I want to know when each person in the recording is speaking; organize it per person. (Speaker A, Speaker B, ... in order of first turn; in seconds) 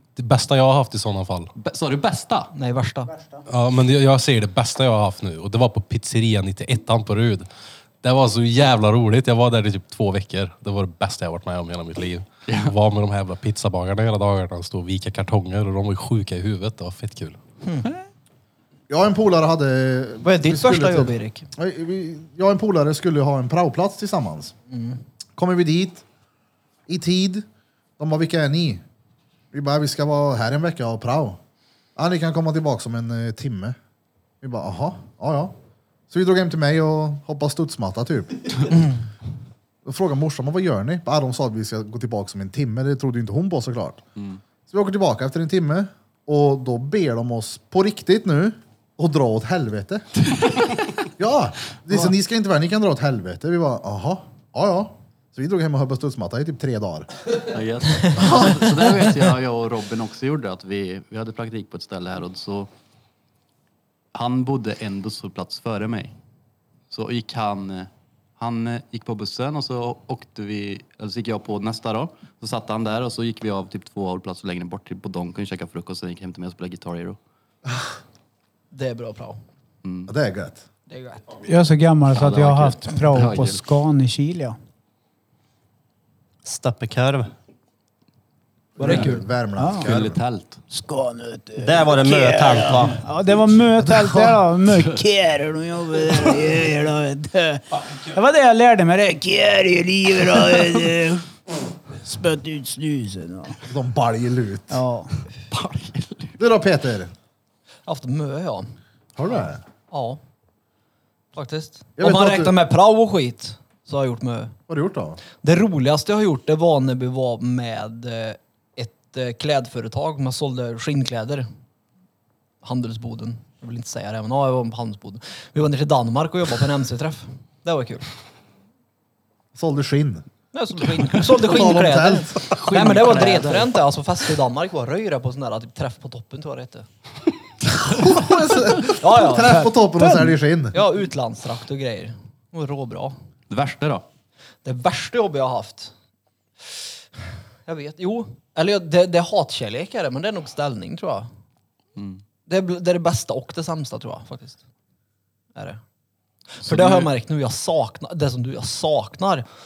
Speaker A: 0.1-1.5, 3.5-7.5, 8.0-17.4
Speaker B: 1.6-2.5, 12.5-12.7, 57.5-62.7, 64.1-66.1, 66.9-77.2, 79.8-80.1, 82.1-83.6, 88.8-89.1, 89.8-90.6, 105.5-106.3, 132.5-133.7, 143.5-144.0, 151.9-152.2, 156.6-157.1
Speaker C: 2.5-3.1, 17.6-17.9, 20.2-21.5, 24.7-25.0, 38.7-39.0, 78.7-79.4, 80.9-81.3, 88.8-89.2, 107.8-108.7, 109.9-110.2, 111.3-114.5, 115.4-121.5, 122.6-128.1, 130.5-136.9, 139.0-139.8, 140.7-143.2, 144.6-145.9, 147.7-151.3, 152.5-154.6, 155.6-155.8, 156.6-159.4
Speaker D: 18.9-24.5, 25.4-26.0, 26.9-27.4, 28.0-28.8, 29.5-31.4, 31.9-33.8, 34.4-35.5, 36.1-38.7, 39.8-44.0, 44.7-50.0, 51.2-57.1, 58.2-58.7, 80.1-80.6, 88.8-90.2, 93.9-94.3, 103.6-104.8, 106.4-107.1, 109.2-109.6, 112.0-112.5, 114.7-115.2, 129.5-130.2, 131.4-132.7, 137.8-140.8
Speaker E: 81.4-84.5, 89.6-89.9, 90.7-101.2, 102.0-103.6, 104.7-105.1, 140.0-140.3
Speaker F: 86.4-87.3, 91.6-93.0